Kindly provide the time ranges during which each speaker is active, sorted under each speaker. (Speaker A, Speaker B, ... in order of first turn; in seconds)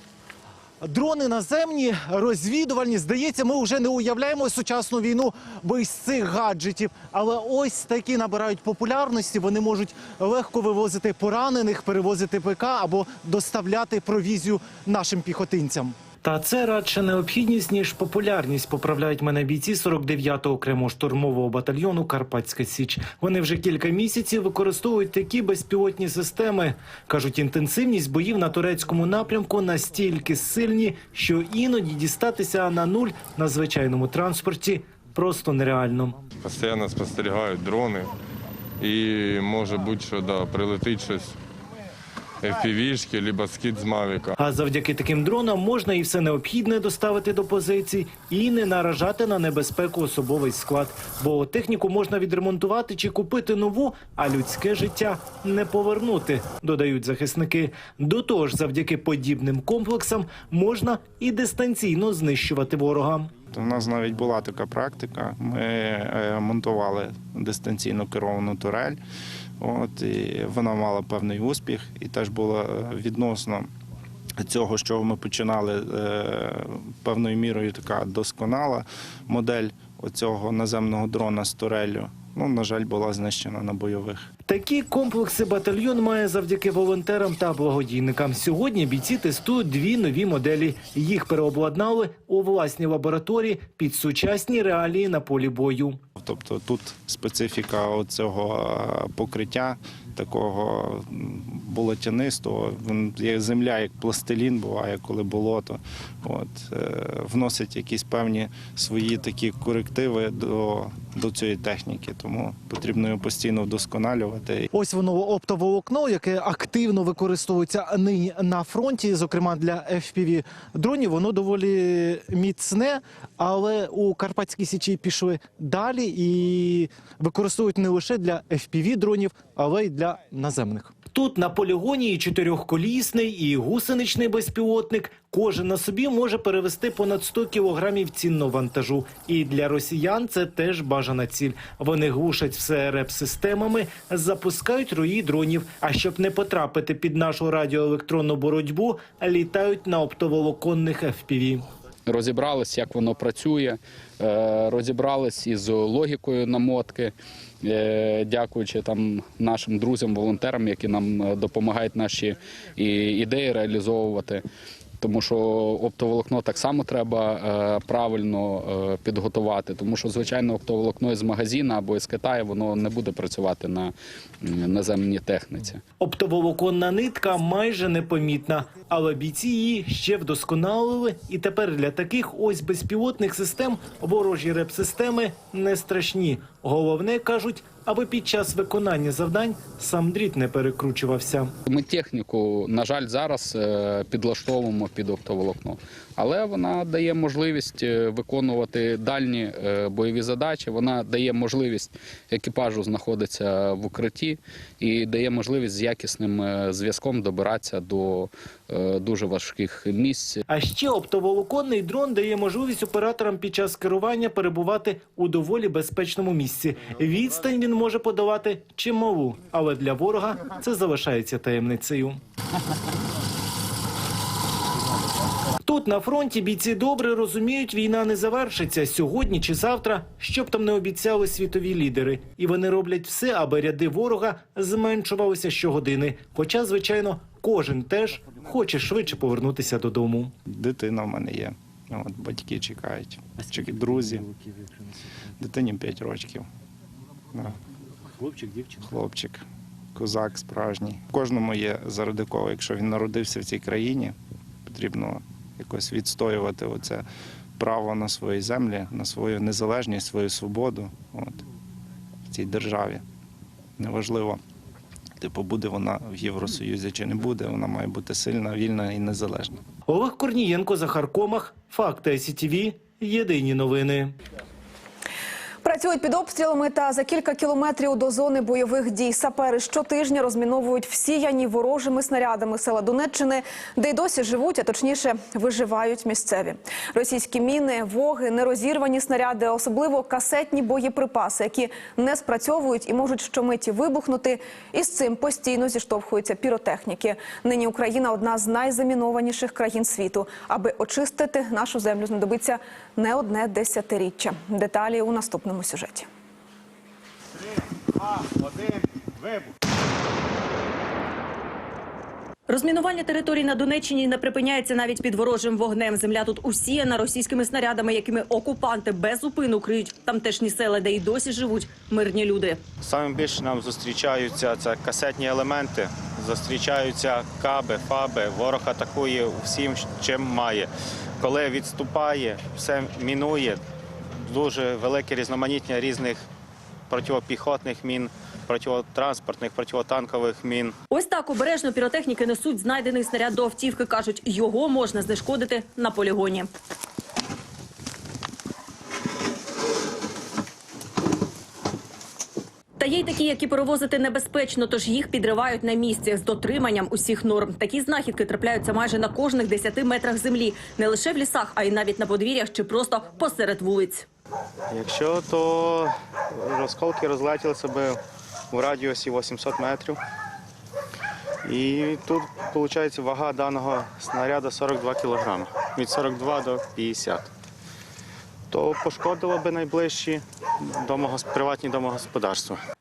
Speaker A: 0.8-16.0, 114.7-130.9
Speaker B: 16.2-36.2, 44.4-63.3, 84.5-96.0, 131.1-151.7, 176.0-191.5, 210.5-222.2, 225.6-240.3, 269.9-274.1
Speaker C: 36.4-38.1, 38.8-41.3, 42.4-44.3
Speaker D: 63.5-69.0, 69.6-73.7, 74.4-84.2, 96.2-114.7, 240.4-244.3, 245.4-246.5, 248.7-249.4, 249.9-254.1, 254.7-257.0, 257.6-261.4, 262.3-263.0, 263.8-264.4, 265.2-269.6
Speaker E: 152.1-164.4, 165.0-175.8, 191.7-210.4
Speaker F: 275.6-306.1
Speaker G: 312.5-322.6, 340.9-346.5, 352.8-364.1
Speaker H: 322.9-330.6, 331.2-333.6, 334.3-336.2, 336.9-340.7, 364.7-365.9, 366.4-367.9, 368.5-369.9, 371.5-377.2, 378.5-380.2, 380.9-382.6